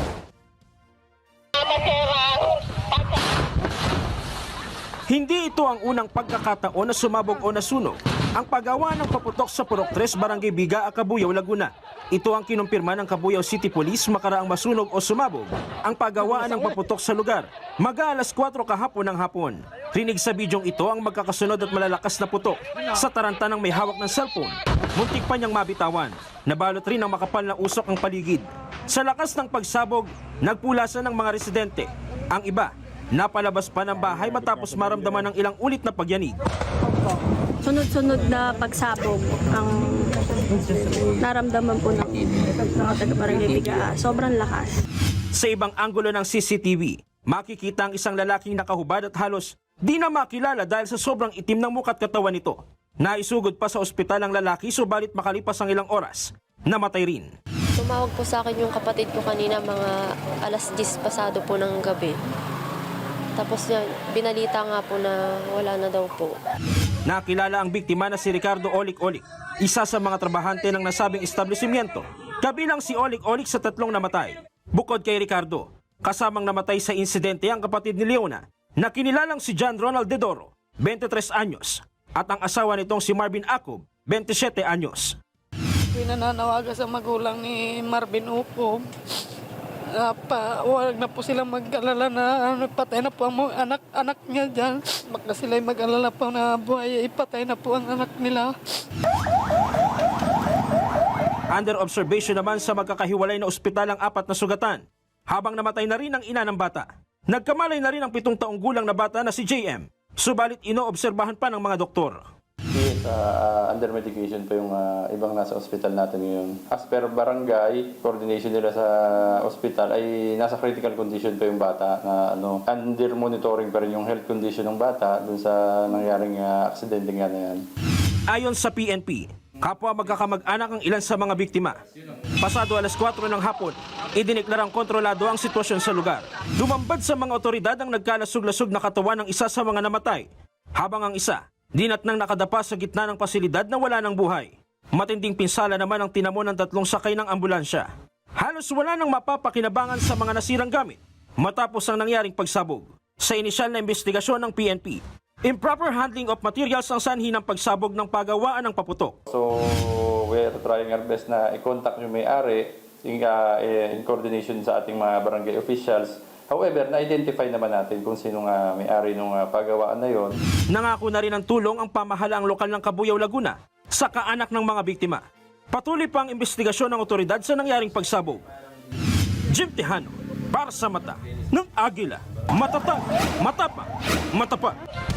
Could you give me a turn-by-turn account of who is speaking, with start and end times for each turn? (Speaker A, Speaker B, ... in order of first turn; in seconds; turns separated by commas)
Speaker A: 5.1-36.4, Speaker B: 37.6-44.7, Speaker A: 45.3-57.3, Speaker C: 57.8-62.2, Speaker C: 63.4-66.4, Speaker A: 67.1-85.2, Speaker D: 85.9-88.8, Speaker D: 90.0-98.5, Speaker A: 101.5-112.2, Speaker E: 112.7-127.6, Speaker A: 128.3-131.8, Speaker A: 132.4-159.2, Speaker E: 159.3-170.3, Speaker A: 170.7-178.4, Speaker A: 179.5-184.8